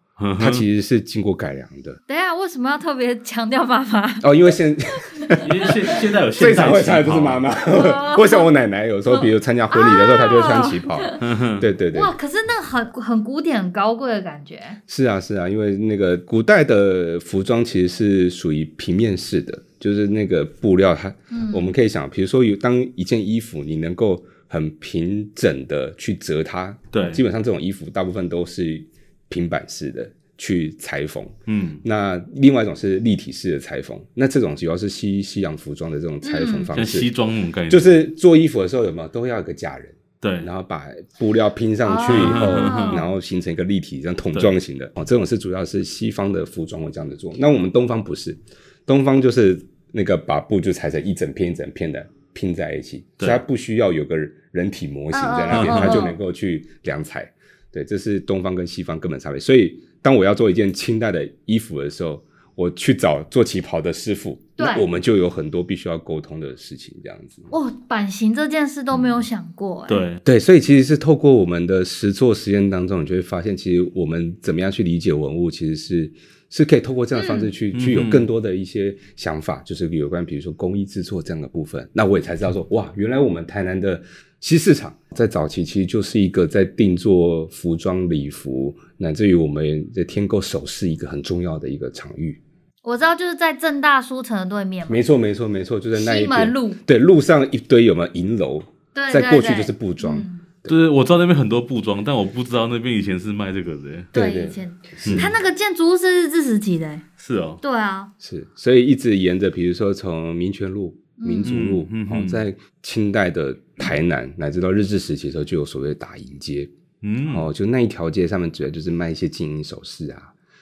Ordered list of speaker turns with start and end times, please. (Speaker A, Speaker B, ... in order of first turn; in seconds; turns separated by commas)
Speaker A: 0.2-0.6, Speaker B: 0.4-2.0, Speaker C: 2.1-4.4, Speaker B: 4.2-12.1, Speaker C: 4.9-6.0, Speaker A: 5.4-7.4, Speaker C: 7.7-8.5, Speaker C: 9.1-11.2, Speaker A: 11.2-11.7, Speaker C: 11.9-14.8, Speaker B: 14.9-37.1, Speaker C: 21.3-21.7, Speaker A: 26.9-27.2, Speaker A: 31.5-31.8, Speaker C: 36.2-36.7, Speaker A: 36.7-38.0, Speaker B: 37.7-67.5, Speaker A: 40.2-40.5, Speaker C: 41.8-43.0, Speaker A: 42.0-43.0, Speaker C: 55.1-56.2, Speaker A: 55.5-56.0, Speaker C: 64.6-64.8, Speaker C: 67.5-70.0, Speaker B: 68.9-69.2, Speaker A: 69.9-70.2, Speaker B: 70.2-92.4, Speaker C: 77.1-77.5, Speaker A: 77.7-78.3, Speaker C: 92.8-95.0, Speaker B: 94.9-100.8, Speaker C: 95.9-96.8, Speaker C: 98.9-100.4, Speaker A: 100.7-104.1, Speaker B: 104.1-105.3, Speaker C: 104.1-107.0, Speaker A: 105.0-105.3, Speaker A: 107.2-107.6, Speaker C: 107.6-108.1, Speaker B: 108.2-116.7, Speaker C: 111.2-111.5, Speaker A: 111.4-112.4, Speaker A: 117.0-117.5, Speaker B: 117.2-120.3